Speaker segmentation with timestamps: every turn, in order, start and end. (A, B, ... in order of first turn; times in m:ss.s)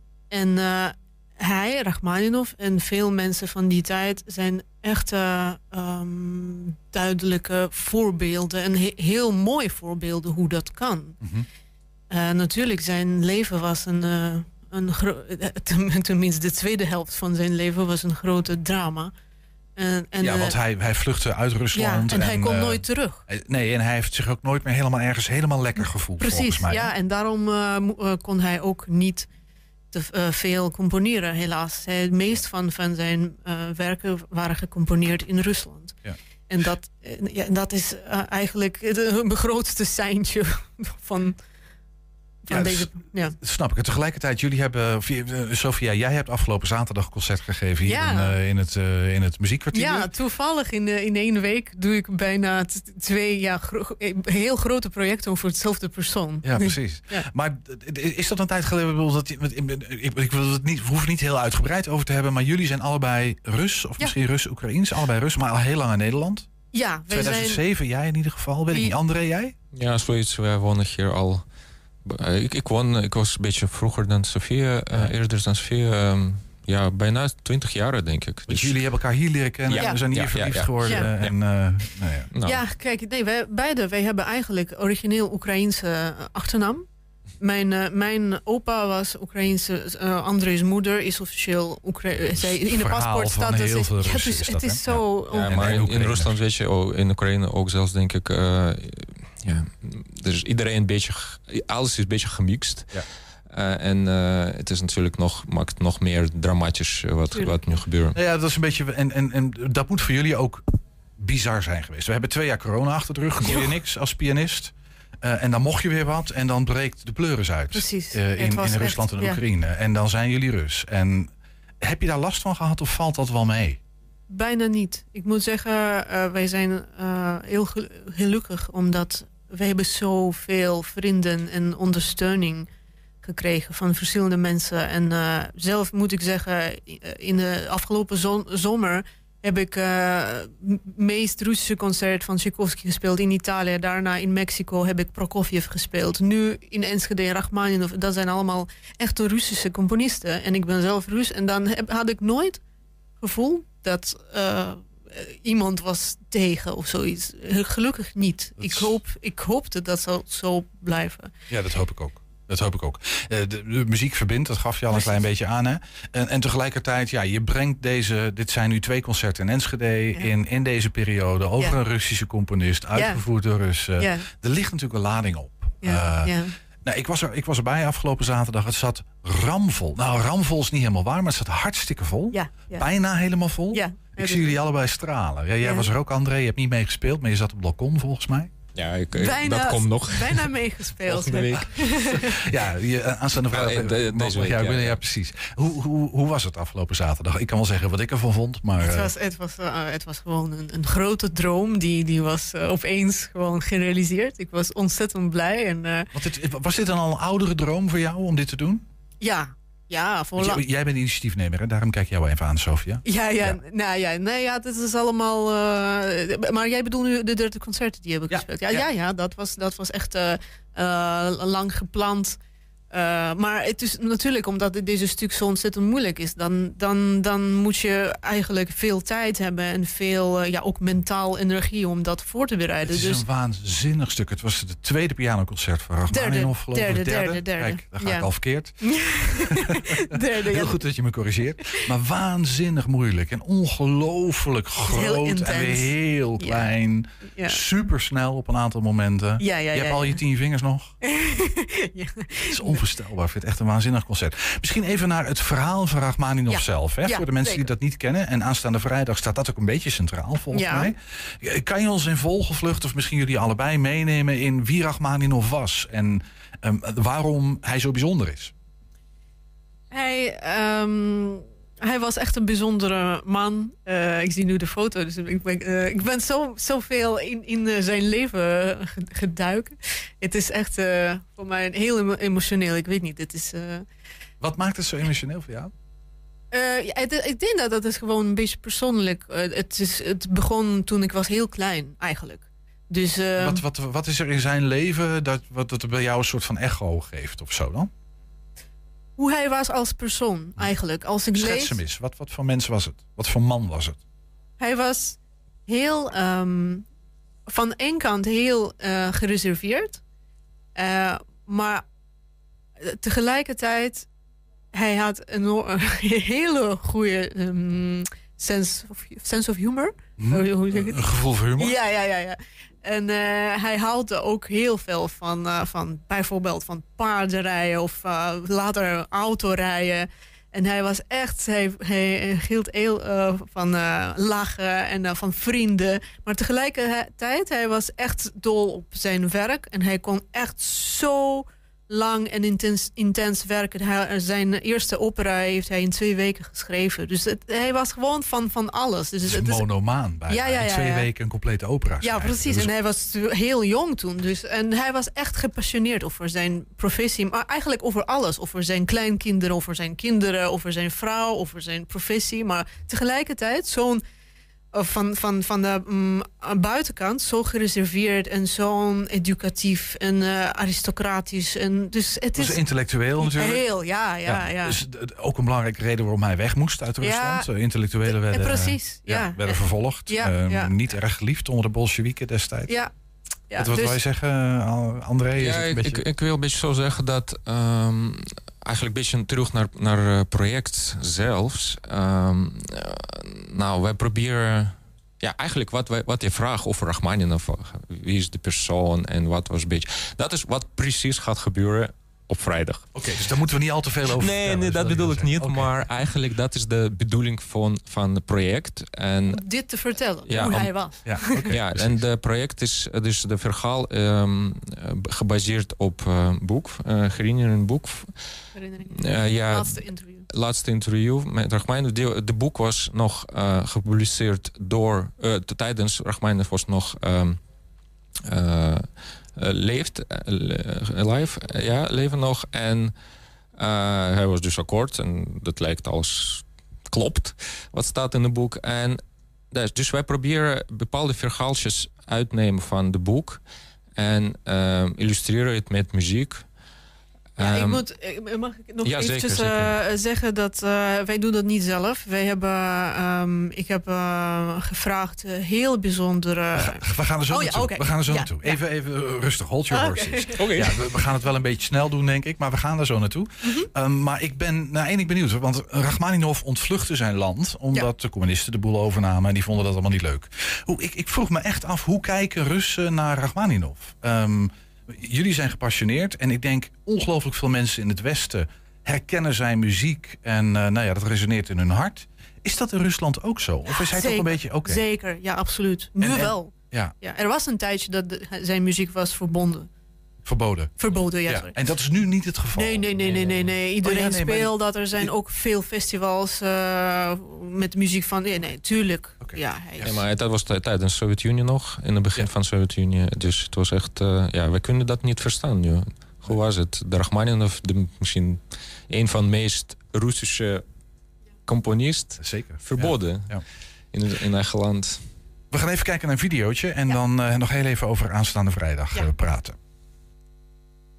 0:00.3-0:11.2 A
0:11.2-0:11.5 B
0:12.1-0:19.1 A
0:19.8-0:20.6 A
0:20.2-0:26.9 B
0:21.8-0:23.2 A
0:26.2-0:29.3 A
0:29.9-0:36.0 A
0:36.5-0:41.4 A
0:42.5-0:43.4 A
0:42.5-0:50.1 B
0:47.9-0:48.3 A
0:49.8-0:57.3 A
0:56.4-1:06.5 B
1:06.7-1:07.6 A
1:07.1-1:09.5 B
1:09.7-1:11.5 C
1:12.0-1:18.9 C
1:18.5-1:22.3 B
1:19.7-1:21.4 C
1:19.8-1:20.0 A
1:22.3-1:22.6 C
1:22.5-1:26.8 A
1:27.4-1:35.7 A
1:32.3-1:36.4 B
1:35.3-1:48.2 C
1:47.4-1:47.7 A
1:48.2-1:50.6 B
1:51.2-2:03.8 B
1:57.8-1:59.4 A
2:04.3-2:12.7 A
2:13.2-2:32.6 A
2:33.2-2:41.3 A
2:38.6-2:38.9 B
2:41.5-3:08.5 B
2:55.8-2:56.5 A
3:02.3-3:02.8 A
3:03.7-3:04.6 A
3:08.8-3:12.3 C
3:09.2-3:12.4 A
3:12.2-3:19.1 B
3:13.5-3:15.0 C
3:18.8-3:26.1 A
3:26.1-3:28.8 B
3:29.2-3:30.6 A
3:30.4-3:33.6 B
3:33.1-3:42.4 A
3:38.3-3:38.9 B
3:42.9-3:53.2 A
3:52.9-3:59.8 B
3:56.1-3:58.3 A
3:58.9-3:59.4 A
4:00.0-4:00.7 A
4:00.5-4:11.0 B
4:04.9-4:05.9 A
4:09.4-4:10.2 A
4:11.3-4:12.7 A
4:12.5-4:28.5 B
4:16.5-4:17.7 A
4:20.6-4:20.9 A
4:29.9-4:43.8 A
4:44.4-4:45.7 B
4:46.5-4:53.6 A
4:53.4-4:57.9 B
4:59.2-5:01.8 A
5:01.4-5:04.0 B
5:04.6-5:06.8 A
5:07.5-5:10.0 A
5:10.8-5:11.8 A
5:12.8-5:14.1 A
5:14.7-5:21.0 A
5:20.2-5:21.8 B
5:21.6-5:49.6 A
5:49.3-5:52.7 B
5:50.3-5:51.1 A
5:52.0-6:04.0 A
6:04.8-6:12.6 A
6:12.4-6:13.6 B
6:13.2-6:14.7 A
6:14.2-6:22.8 B
6:17.0-6:17.5 A
6:18.1-6:20.7 A
6:23.5-6:24.0 A
6:23.6-6:26.0 B
6:25.4-6:43.3 C
6:42.9-6:45.8 B
6:44.0-6:49.4 C
6:49.4-6:51.4 A
6:50.3-6:50.7 C
6:51.0-6:52.0 B
6:51.5-6:58.1 C
6:58.6-7:00.2 A
6:59.1-7:07.4 C
7:08.3-7:13.0 C
7:13.6-7:23.4 C
7:24.0-7:26.5 C
7:27.4-7:27.8 C
7:27.4-7:36.8 A
7:28.8-7:29.8 C
7:36.6-8:04.8 B
7:37.3-7:38.6 A
7:39.7-7:40.3 A
7:40.4-7:40.7 C
8:03.8-8:09.7 A
8:06.0-8:07.0 B
8:10.2-8:15.1 B
8:10.8-8:11.5 A
8:12.6-8:20.0 A
8:19.2-8:20.0 B
8:19.8-8:30.7 C
8:31.5-8:35.1 C
8:32.2-8:33.4 B
8:35.5-8:39.6 B